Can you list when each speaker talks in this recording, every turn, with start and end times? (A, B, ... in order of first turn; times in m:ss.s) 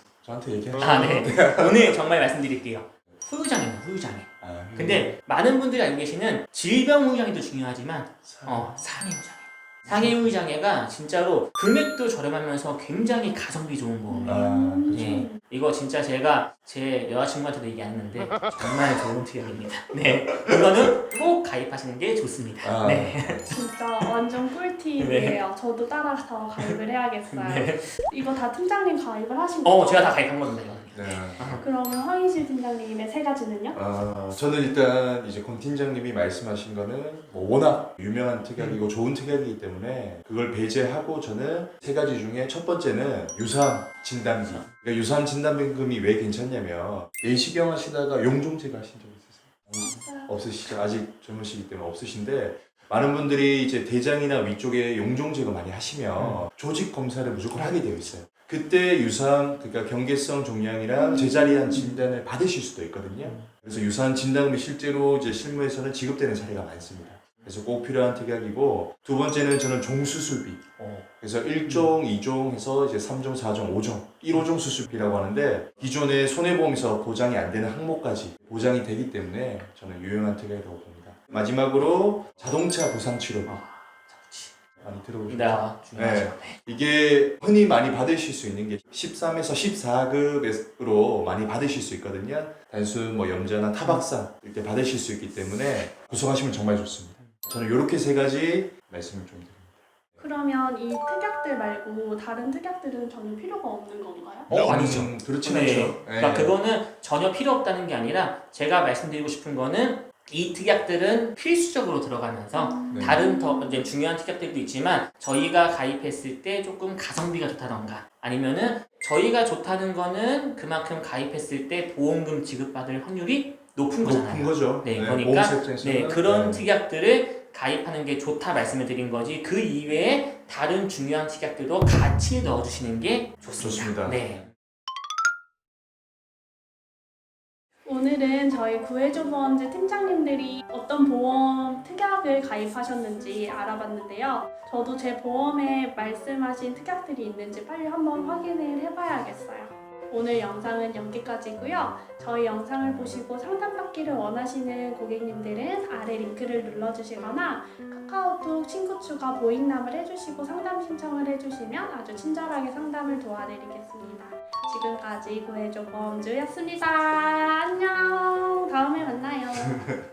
0:00.2-0:02.0 A
0:00.8-0:23.5 B
0:04.4-0:05.1 A
0:08.2-0:08.8 A
0:09.8-0:10.3 A
0:14.1-0:15.4 C
0:14.2-0:15.3 A
0:22.6-0:23.5 A
0:23.4-0:30.2 C
0:25.0-0:25.4 B
0:26.6-0:28.0 B
0:29.6-0:31.6 B
0:30.9-0:31.6 A
0:31.6-0:33.8 C
0:33.7-1:10.6 A
0:49.8-0:50.3 C
0:56.2-0:56.4 B
1:01.7-1:02.0 B
1:03.2-1:03.5 B
1:10.8-1:11.0 B
1:11.2-1:23.6 A
1:11.6-1:11.9 B
1:23.4-1:24.6 B
1:24.8-1:39.7 A
1:25.3-1:26.6 B
1:40.2-1:44.5 C
1:44.5-1:46.5 A
1:44.5-2:14.5 B
1:52.8-1:53.9 C
1:52.9-1:53.2 A
2:04.0-2:06.6 A
2:13.6-2:14.2 A
2:17.8-2:49.9 C
2:49.7-2:50.0 A